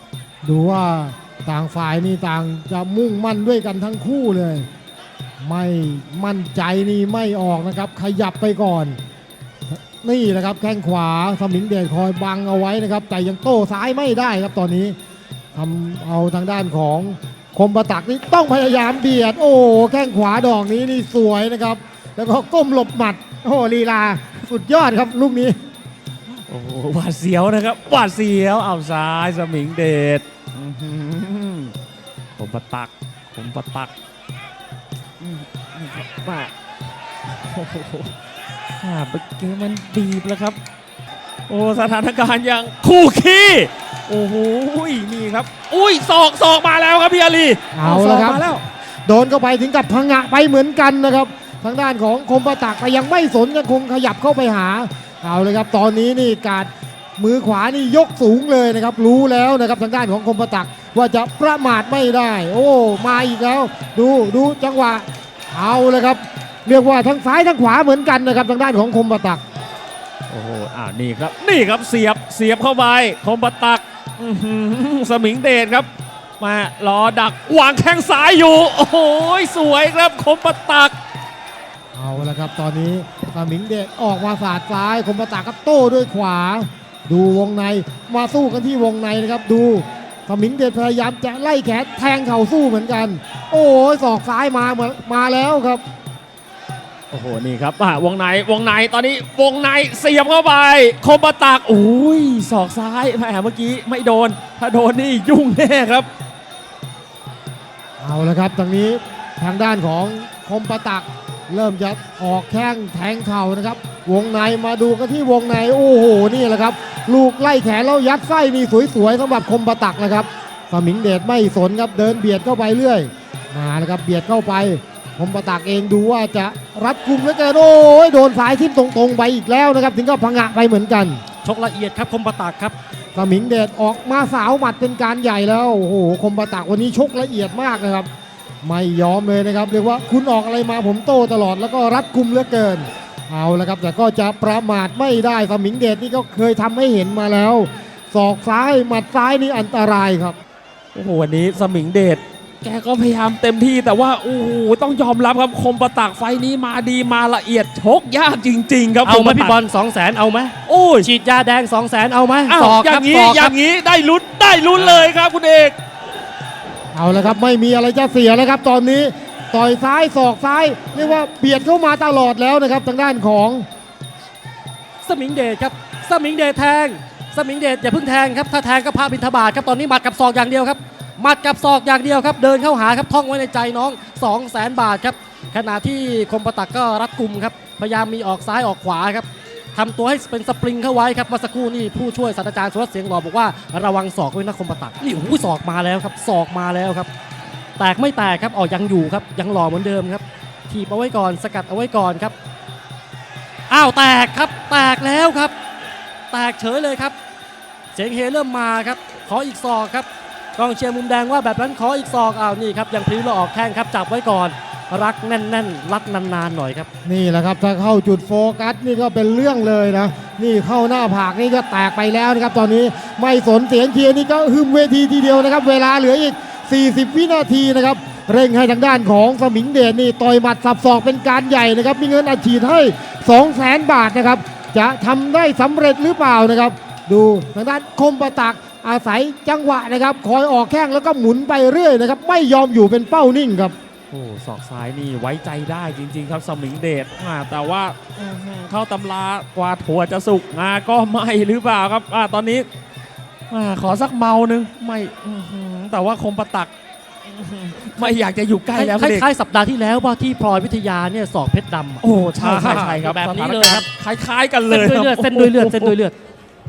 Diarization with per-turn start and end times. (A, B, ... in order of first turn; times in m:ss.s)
0:00.4-0:04.7 A
0:05.4-0:09.0 A
0:10.0-0:15.0 A
0:15.5-0:25.6 A
0:26.5-0:31.7 B
0:32.4-0:33.9 B
0:35.2-0:36.5 B
0:37.5-0:38.1 B
0:38.8-0:40.6 B
0:41.5-0:48.6 B
0:47.7-0:48.5 A
0:49.0-1:09.4 A
1:10.3-1:15.9 B
1:16.4-1:20.9 B
1:21.9-1:35.8 A
1:37.1-1:46.1 B
1:48.0-2:11.2 A
2:11.4-2:12.7 C
2:13.2-2:18.1 A
2:18.6-2:30.4 A
2:30.9-2:39.6 B
2:39.0-2:43.5 C
2:40.6-2:41.1 B
2:42.5-2:45.8 B
2:46.9-2:53.6 A
2:55.0-3:17.1 C
3:17.8-3:22.3 C
3:23.7-3:25.5 C
3:26.3-3:27.1 C
3:27.9-3:36.9 C
3:37.0-4:03.7 A
4:04.1-4:12.6 B
4:13.5-4:16.7 B
4:17.3-4:19.3 B
4:18.7-4:23.8 C
4:22.0-4:25.9 B
4:24.7-4:26.1 C